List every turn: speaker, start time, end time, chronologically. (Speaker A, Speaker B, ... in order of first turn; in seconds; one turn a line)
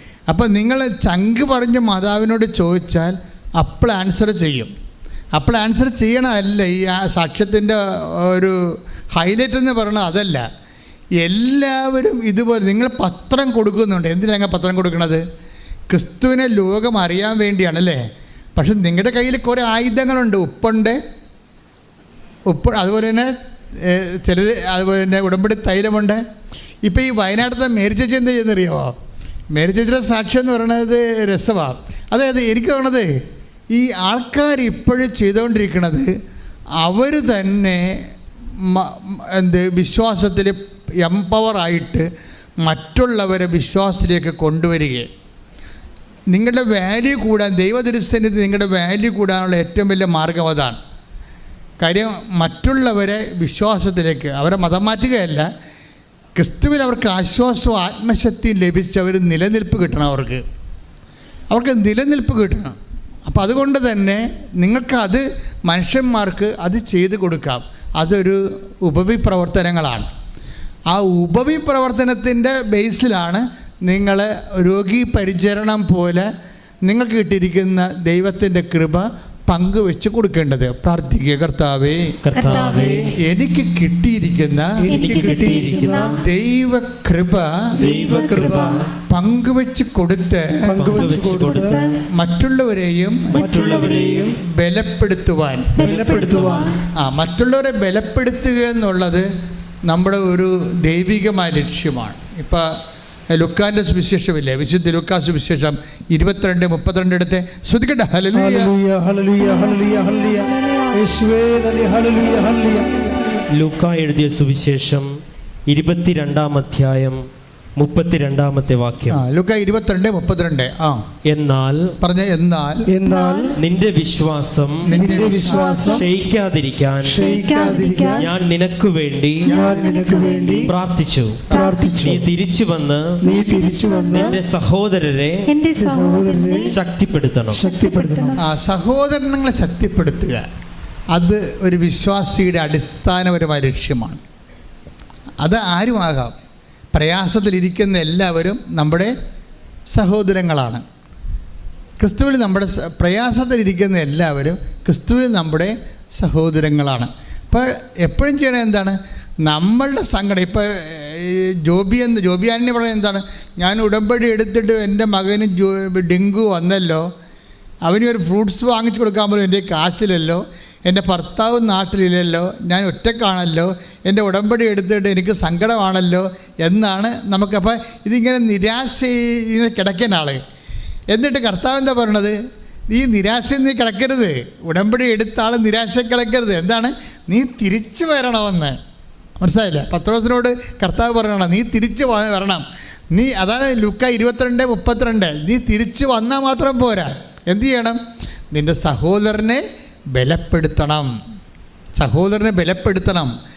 Speaker A: 0.3-4.7
Speaker A: 5.3-10.4
Speaker A: 11.2-15.2
Speaker A: 15.9-18.0
Speaker A: 18.6-21.0
Speaker A: 22.5-26.2
Speaker A: 26.8-28.9
Speaker A: 29.5-33.1
Speaker A: 33.7-36.1
Speaker A: 36.8-38.0
Speaker A: 38.6-42.1
Speaker A: 42.6-45.1
Speaker A: 46.3-50.8
Speaker A: 51.8-55.5
Speaker A: 56.3-60.4
Speaker A: 61.5-62.8
Speaker A: 63.3-70.1
Speaker A: 70.9-76.3
Speaker A: 76.8-82.1
Speaker B: 82.2-83.1
Speaker C: 82.3-83.0
Speaker D: 82.7-83.1
Speaker A: 83.2-84.8
Speaker D: 84.8-86.2
Speaker C: 84.9-86.2
Speaker B: 85.2-85.9
Speaker A: 86.1-87.8
Speaker D: 87.7-88.9
Speaker C: 87.8-88.9
Speaker A: 89.1-90.8
Speaker D: 90.6-91.9
Speaker B: 90.7-91.8
Speaker C: 91.0-92.0
Speaker A: 92.1-96.0
Speaker C: 93.3-94.2
Speaker D: 93.3-94.4
Speaker C: 95.8-96.8
Speaker D: 95.8-96.8
Speaker A: 96.9-99.3
Speaker A: 99.9-102.7
Speaker A: 103.3-108.7
Speaker D: 108.3-113.1
Speaker C: 109.4-111.0
Speaker B: 113.5-115.1
Speaker B: 115.7-117.2
Speaker B: 117.8-119.2
Speaker A: 119.1-121.0
Speaker B: 121.3-121.9
Speaker A: 122.0-122.9
Speaker D: 122.9-123.5
Speaker C: 123.0-123.5
Speaker B: 123.5-124.9
Speaker A: 124.8-125.9
Speaker C: 125.0-126.0
Speaker D: 125.0-126.0
Speaker B: 125.9-127.2
Speaker D: 127.0-128.3
Speaker C: 127.2-128.3
Speaker B: 128.2-129.5
Speaker C: 129.5-130.7
Speaker D: 129.5-130.7
Speaker B: 130.6-133.0
Speaker D: 131.5-132.2
Speaker C: 131.5-132.2
Speaker D: 133.2-134.4
Speaker C: 133.4-134.4
Speaker B: 134.1-135.5
Speaker C: 135.5-136.8
Speaker D: 135.8-136.7
Speaker B: 136.6-137.6
Speaker D: 137.5-138.4
Speaker C: 137.7-138.4
Speaker A: 138.4-140.4
Speaker A: 141.1-144.2
Speaker A: 145.4-146.3
Speaker A: 146.9-149.1
Speaker A: 149.9-150.8
Speaker A: 152.0-167.1
Speaker A: 167.8-180.4
Speaker A: 181.1-182.3
Speaker A: 182.9-188.8
Speaker A: 189.4-198.0
Speaker A: 198.5-201.1
Speaker A: 201.9-203.3